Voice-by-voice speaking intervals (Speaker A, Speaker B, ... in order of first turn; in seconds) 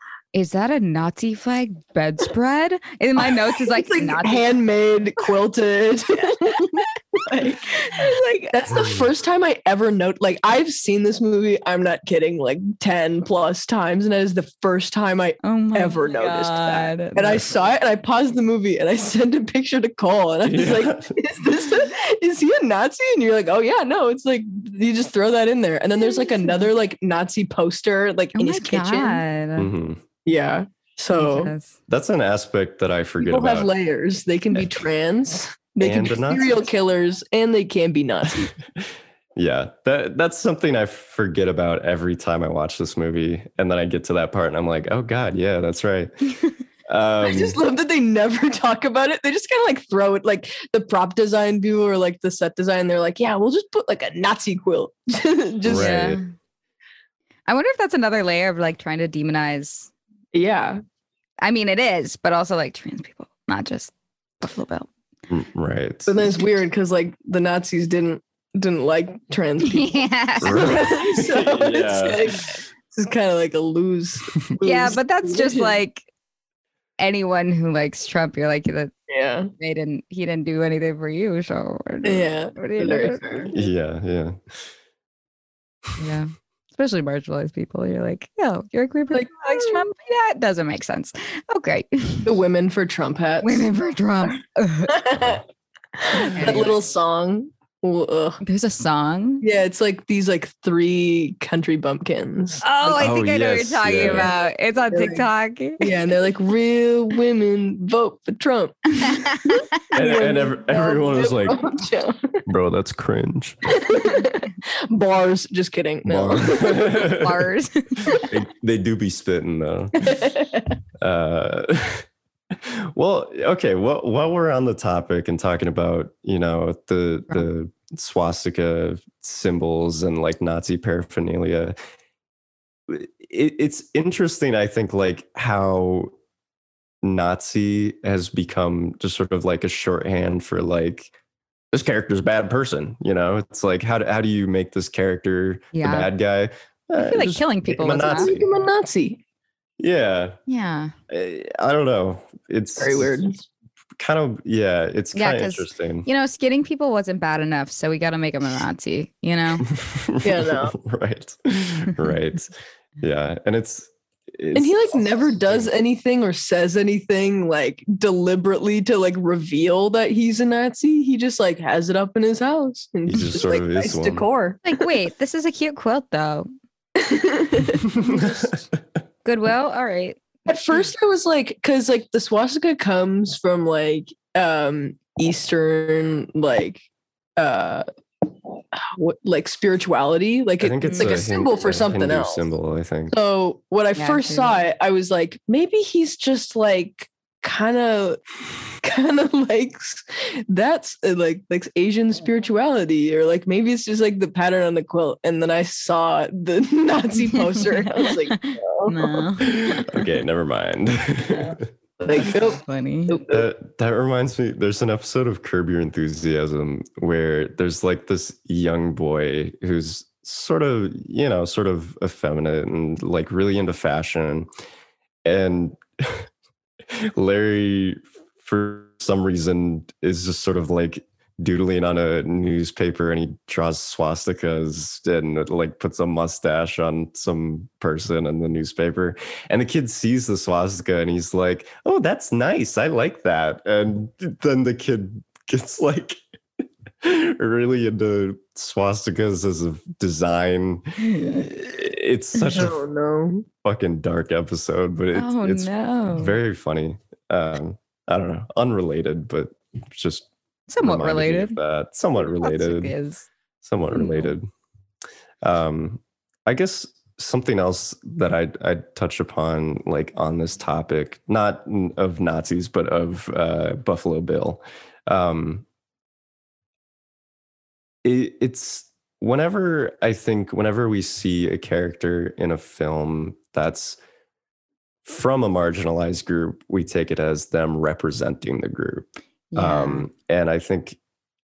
Speaker A: 0.3-4.5, 7.8-8.4, 15.4-17.4, 28.4-29.7, 31.1-31.8, 55.7-56.3, 57.5-59.9, 61.4-64.9, 69.6-70.8, 74.6-76.0, 77.0-78.9, 79.6-83.5, 86.0-92.3, 93.4-95.0, 96.2-96.7, 98.4-99.5, 102.6-105.9, 109.0-109.7, 116.7-118.2, 145.7-146.1, 147.0-148.3, 150.5-150.9, 155.1-159.7, 174.7-176.5, 178.0-178.6, 179.2-180.4, 190.8-191.3, 193.9-194.6, 207.3-210.0, 212.1-213.2, 251.0-251.4, 255.1-256.4, 260.7-261.6, 262.2-263.3, 263.9-264.3, 289.5-290.1
Speaker B: 3.5-29.2, 30.2-31.5, 33.2-38.5, 47.2-56.0, 60.3-60.8, 66.1-75.8, 79.1-79.5, 82.0-83.5, 89.1-89.8, 92.2-93.7, 94.9-95.4, 95.9-98.4, 99.4-102.6, 104.0-104.3, 104.9-105.3, 105.8-112.3, 113.7-117.0, 120.0-120.8, 148.1-149.2, 152.8-153.4, 160.2-160.7, 164.5-174.9, 176.9-177.8, 180.4-186.8, 187.4-187.8, 188.5-192.5, 193.1-198.2, 198.8-209.3, 212.0-213.4, 252.4-253.5
Speaker C: 8.7-9.1, 20.4-21.2, 29.6-30.0, 31.9-33.7, 35.8-36.6, 38.8-46.3, 46.9-47.6, 55.6-56.2, 65.3-66.2, 70.4-72.6, 83.5-84.4, 102.8-104.3, 109.9-111.6, 112.5-113.7, 116.0-117.5, 118.1-120.2, 121.0-131.8, 132.9-136.1, 137.0-141.1, 141.7-148.5, 149.8-150.4, 151.1-153.2, 154.0-156.1, 159.7-165.7, 173.1-174.2, 177.9-178.3, 190.6-193.1, 209.4-211.7, 213.3-224.5, 225.2-226.3, 226.9-246.2, 247.0-252.8, 253.6-260.3, 260.8-262.9, 263.6-264.5, 265.4-275.6, 278.0-284.0, 285.0-291.0